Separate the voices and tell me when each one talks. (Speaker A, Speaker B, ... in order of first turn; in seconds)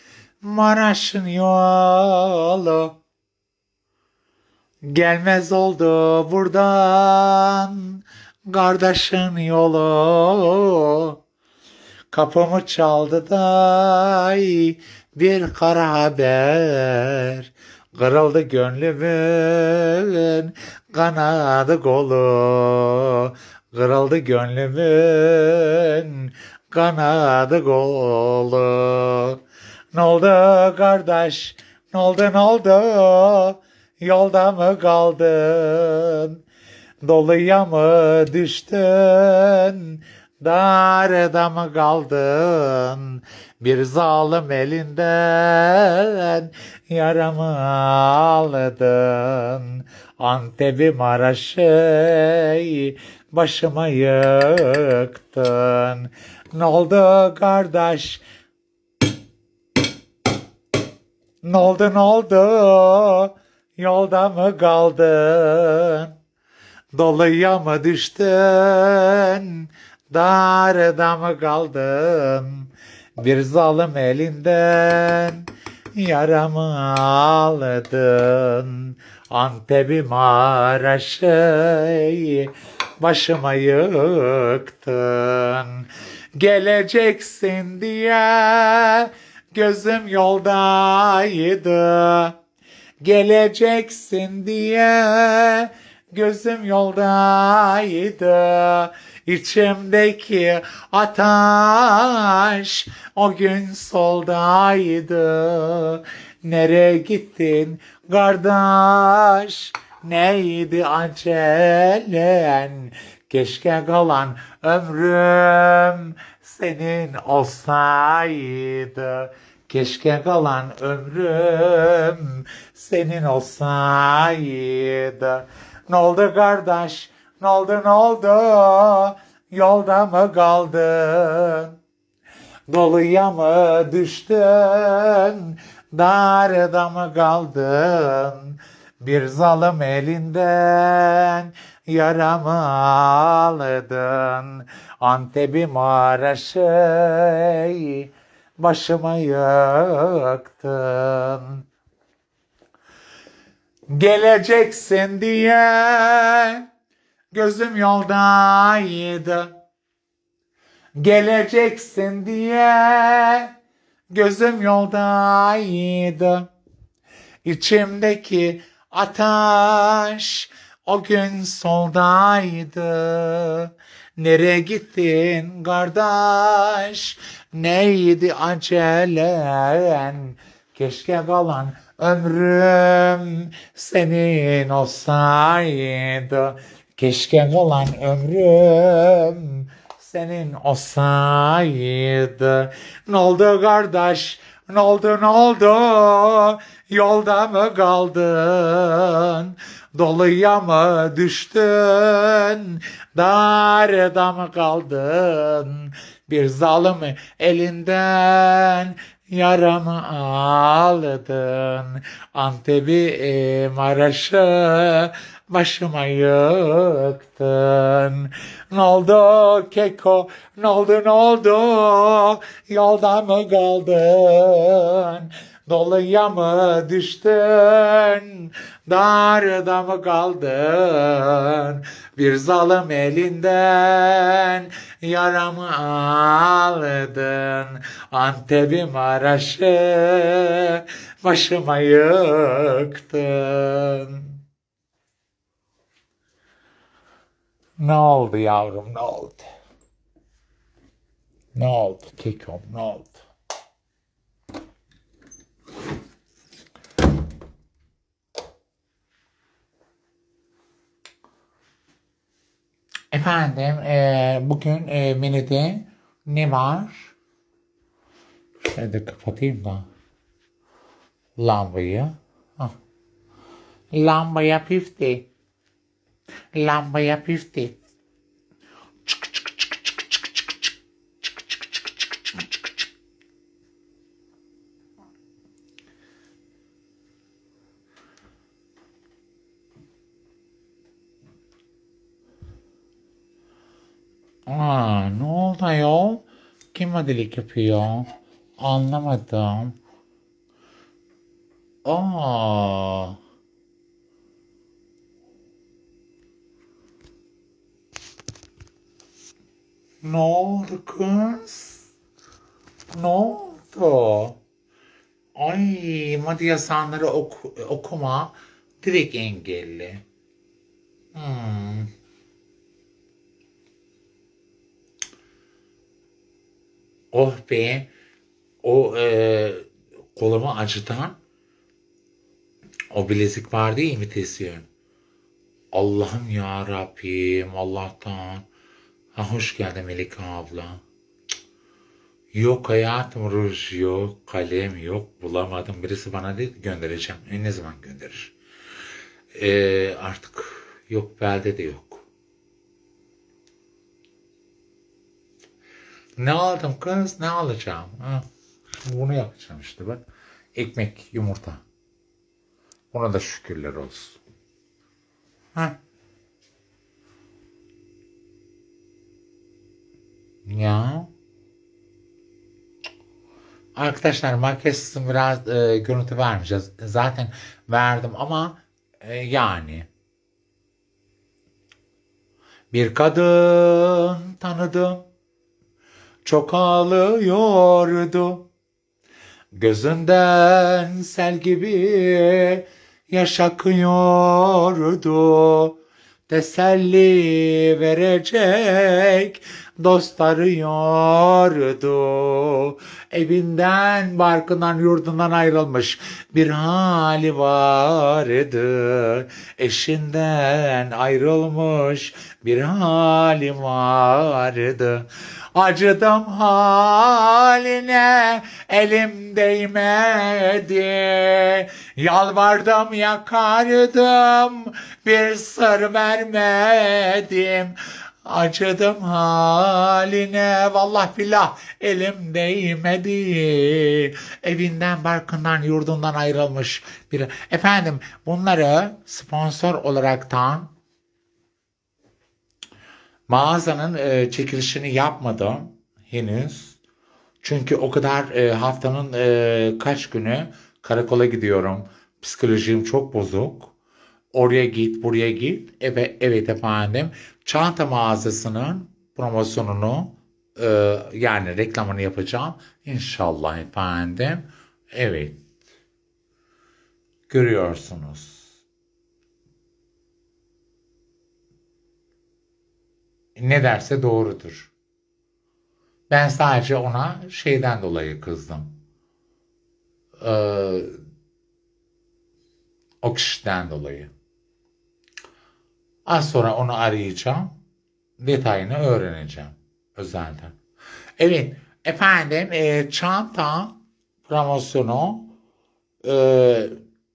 Speaker A: 0.4-3.0, 4.8-11.2, 12.1-29.4, 29.9-36.4, 37.0-58.2, 61.4-66.1, 66.9-92.4, 93.0-131.8, 132.7-151.6, 153.9-156.7, 157.3-159.6, 160.9-163.5, 164.1-166.5, 167.4-244.4, 247.8-249.5, 251.5-253.2, 263.1-267.1, 268.6-269.9, 271.4-272.7, 273.9-275.3, 276.5-277.7, 279.1-280.5, 282.0-282.6, 294.4-299.7, 301.8-303.2, 310.0-311.9, 312.9-314.4, 315.3-320.0, 321.1-321.9, 327.1-327.9, 328.6-331.1, 332.9-334.6, 335.7-338.4, 339.1-340.8, 342.3-348.3, 349.3-352.1, 356.2-360.0, 360.5-361.6, 362.9-364.2, 370.4-371.1, 373.7-379.9, 382.7-385.1, 386.2-388.5, 389.5-395.8, 396.3-440.7, 443.3-446.8, 447.4-453.7, 454.3-465.4, 467.3-468.5, 473.4-474.7, 476.1-478.7, 480.2-480.9, 483.0-484.1, 486.1-487.5, 488.2-490.6, 491.2-495.3, 496.0-496.8